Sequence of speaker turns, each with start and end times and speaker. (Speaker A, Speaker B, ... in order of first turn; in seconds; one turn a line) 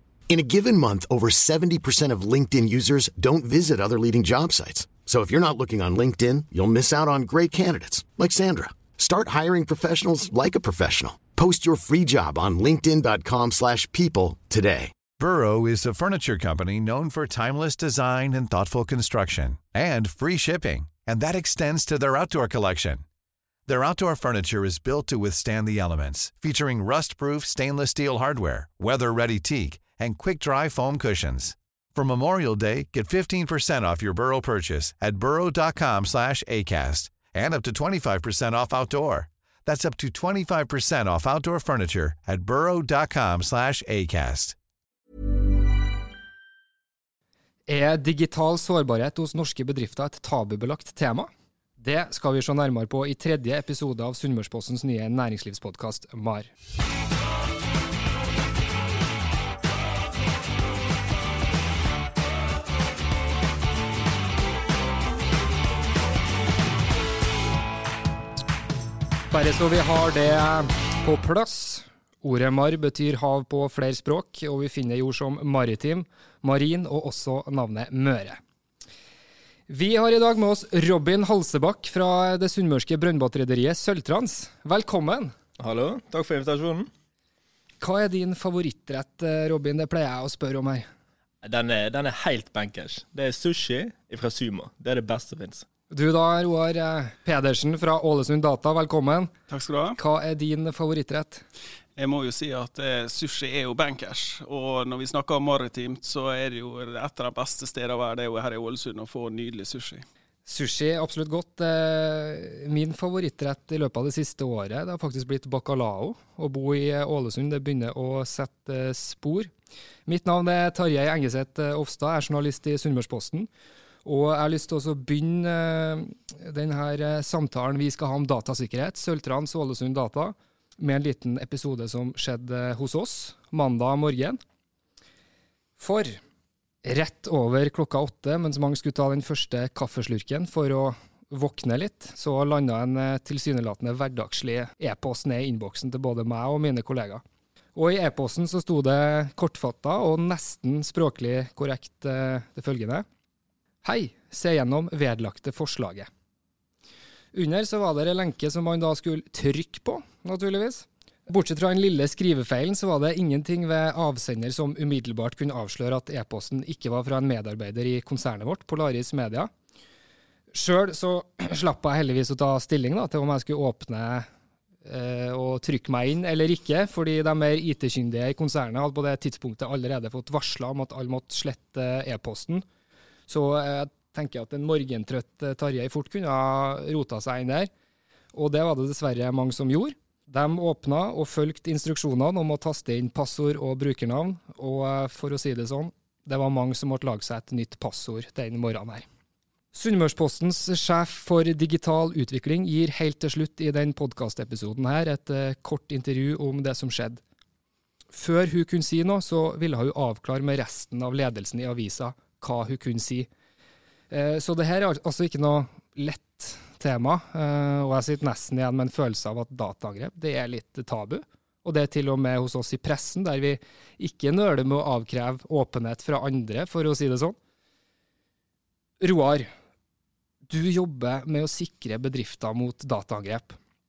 Speaker A: 0.3-14.9
Speaker B: 15.2-23.0
Speaker B: 23.6-44.5
Speaker C: 47.7-56.5
Speaker C: 69.3-78.4
Speaker C: 79.7-85.3
Speaker D: 85.6-86.9
Speaker C: 87.8-90.9
Speaker D: 91.4-95.7
Speaker C: 95.9-99.3
Speaker E: 99.5-100.0
Speaker C: 100.0-101.4
Speaker E: 102.0-110.0
Speaker C: 110.5-119.5
Speaker C: 120.0-123.5
Speaker C: 124.0-134.4
Speaker C: 135.8-136.2
Speaker C: 136.8-147.2
Speaker C: 147.7-153.0
Speaker C: 153.8-156.1
Speaker C: 157.3-169.5
Speaker C: 170.5-174.3
Speaker C: 174.8-182.6
Speaker C: 183.3-187.7
Speaker C: 188.3-199.1
Speaker C: 199.7-207.2
Speaker C: 208.1-213.3
Speaker C: 214.1-227.3
Speaker C: 229.0-229.5
Speaker C: 230.5-233.6